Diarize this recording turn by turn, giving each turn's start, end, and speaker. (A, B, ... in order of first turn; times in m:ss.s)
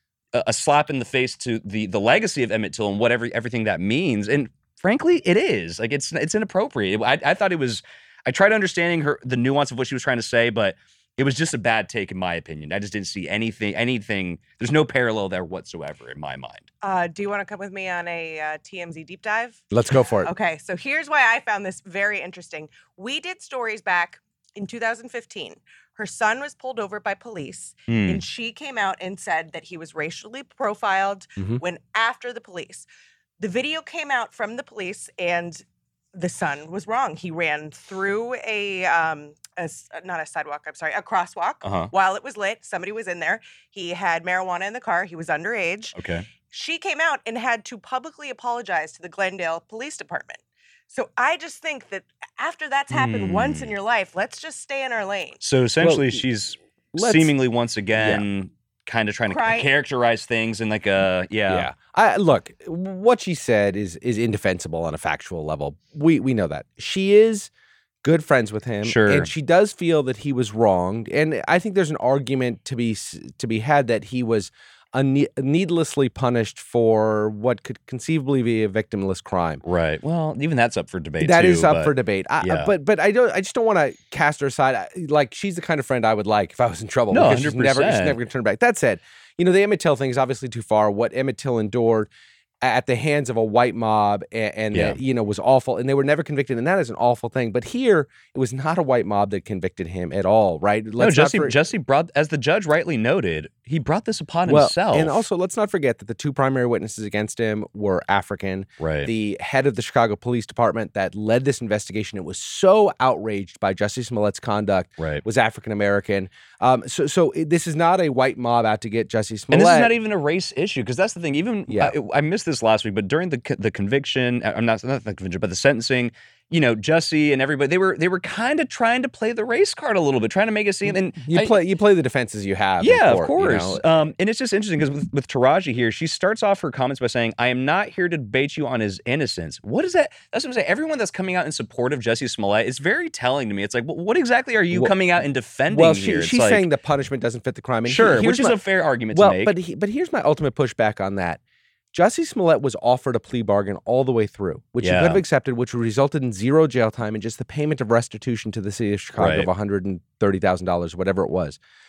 0:00.3-0:16.7 A
0:16.8-0:19.6 B
0:19.7-0:20.3 C
0:20.2-0:32.9 B
0:27.9-0:28.2 A
0:33.4-0:45.9 B
0:41.6-0:41.9 A
0:46.0-0:46.3 A
0:46.5-0:55.4 B
0:52.9-0:53.7 A
0:55.4-1:01.7 A
0:55.8-0:56.2 C
0:56.9-0:57.3 C
0:58.0-0:58.2 C
0:59.3-0:59.7 B
1:01.5-1:07.5 C
1:08.0-1:19.6 C
1:08.8-1:09.3 A
1:19.6-1:22.7 A
1:21.2-1:32.1 C
1:27.1-1:28.2 A
1:32.6-1:41.5 C
1:34.7-1:35.0 A
1:41.0-1:45.2 A
1:44.4-1:59.9 C
1:48.8-1:49.1 A
1:55.0-1:55.2 A
1:59.5-2:11.6 A
2:01.7-2:01.9 C
2:10.9-2:13.8 C
2:12.8-2:26.7 A
2:25.7-2:28.6 C
2:27.8-2:29.5 A
2:29.1-2:31.4 C
2:31.9-2:41.6 C
2:34.8-2:35.2 A
2:39.2-2:39.5 A